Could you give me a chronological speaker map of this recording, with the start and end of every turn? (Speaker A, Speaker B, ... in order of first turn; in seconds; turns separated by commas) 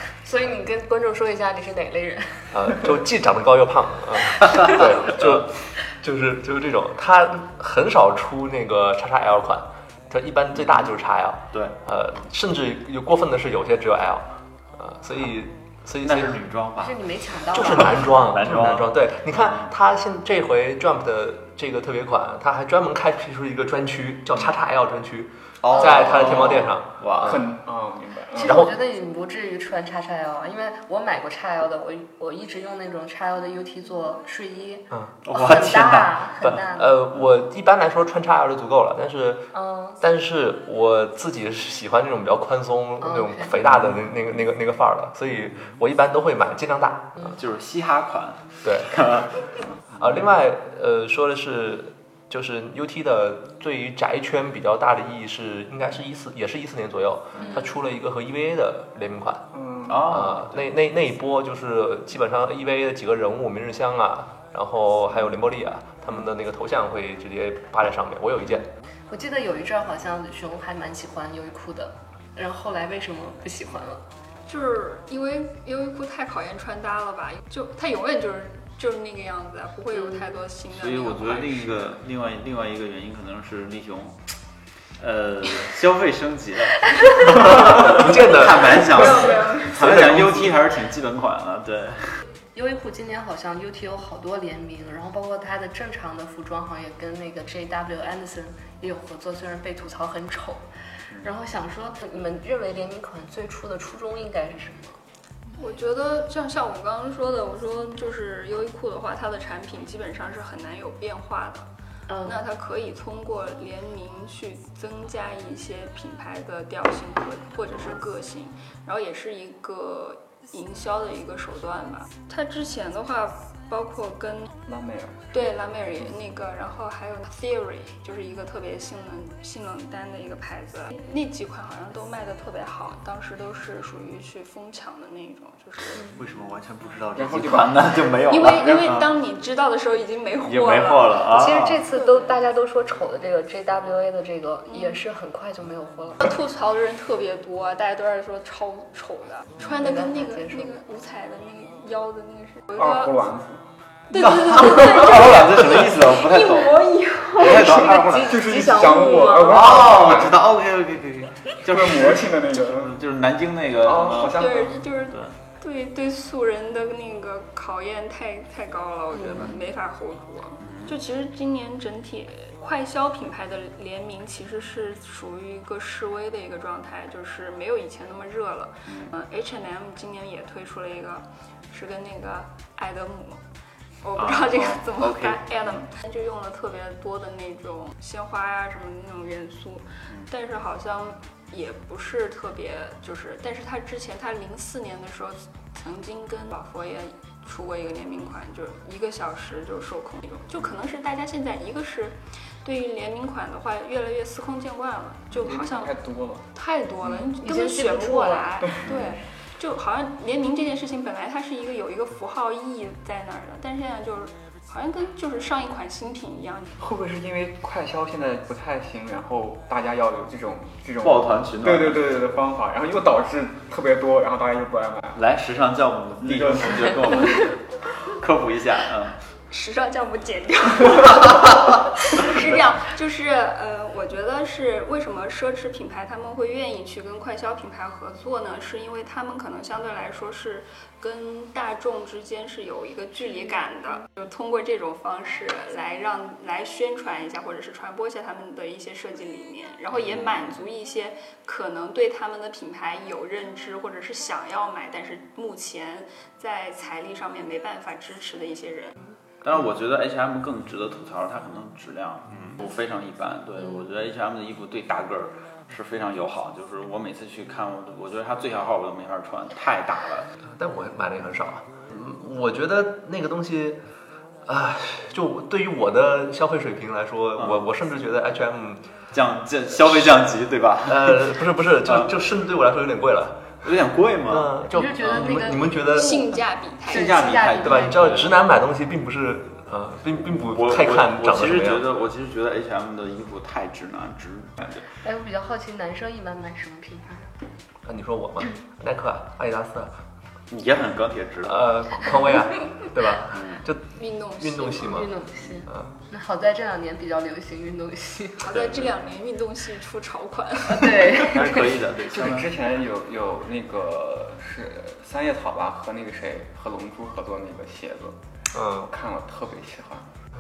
Speaker A: 0.2-2.6, Speaker B: 2.5-16.4, Speaker C: 16.0-16.9, Speaker A: 16.8-18.3, Speaker B: 17.5-27.4, Speaker C: 18.3-18.9, Speaker C: 25.6-27.4, Speaker A: 25.8-26.5, Speaker D: 27.2-28.6, Speaker A: 28.4-37.0, Speaker B: 28.4-28.7, Speaker B: 34.9-35.2, Speaker C: 35.3-35.7, Speaker B: 35.9-47.4, Speaker A: 39.5-40.0, Speaker A: 43.0-43.5, Speaker C: 47.4-49.3, Speaker B: 48.6-48.9, Speaker B: 49.9-59.5, Speaker D: 59.5-60.0, Speaker C: 59.9-60.4, Speaker B: 60.0-68.7, Speaker A: 69.1-74.0, Speaker E: 74.5-81.8, Speaker C: 80.7-84.2, Speaker C: 85.0-92.2, Speaker A: 87.2-87.9, Speaker B: 87.7-90.5, Speaker E: 88.7-89.7, Speaker A: 92.5-100.6, Speaker A: 101.2-105.0, Speaker E: 105.6-111.7, Speaker A: 112.1-112.5, Speaker E: 112.2-124.5, Speaker D: 124.7-125.6, Speaker E: 125.3-136.2, Speaker C: 136.1-139.2, Speaker D: 137.2-138.1, Speaker E: 137.6-142.4, Speaker C: 140.4-141.8, Speaker A: 141.2-146.3, Speaker E: 146.2-153.1, Speaker A: 149.6-150.8, Speaker D: 152.7-153.6, Speaker E: 154.1-158.3, Speaker C: 154.2-158.4, Speaker D: 157.5-160.4, Speaker A: 157.5-160.1, Speaker C: 159.5-162.2, Speaker D: 161.7-163.0, Speaker C: 162.7-164.3, Speaker D: 163.8-164.9, Speaker E: 164.3-183.4, Speaker C: 170.7-170.9, Speaker C: 178.9-179.1, Speaker E: 184.0-205.9, Speaker C: 184.2-185.8, Speaker D: 205.3-206.5, Speaker E: 206.5-216.7, Speaker A: 207.2-208.9, Speaker D: 208.6-209.0, Speaker D: 216.8-225.2, Speaker C: 221.0-222.1, Speaker C: 225.2-229.2, Speaker D: 226.2-226.7, Speaker E: 229.5-259.0, Speaker C: 249.9-250.6, Speaker C: 259.4-270.3, Speaker B: 270.5-273.8, Speaker B: 274.5-278.9, Speaker C: 279.1-281.2, Speaker B: 280.8-283.6, Speaker C: 283.6-284.5, Speaker B: 284.3-286.2, Speaker A: 284.6-286.3, Speaker E: 285.9-287.1, Speaker A: 286.9-288.2, Speaker C: 286.9-288.3, Speaker B: 287.6-291.9, Speaker C: 290.5-294.8, Speaker A: 294.8-297.4, Speaker B: 297.9-299.9, Speaker C: 300.5-301.6, Speaker B: 301.4-305.9, Speaker C: 303.4-303.6, Speaker E: 303.9-305.0, Speaker A: 304.8-308.6, Speaker E: 308.4-311.3, Speaker C: 308.5-309.0, Speaker A: 310.7-311.9, Speaker C: 311.1-312.5, Speaker D: 312.1-318.2, Speaker B: 318.5-318.9, Speaker D: 318.8-320.1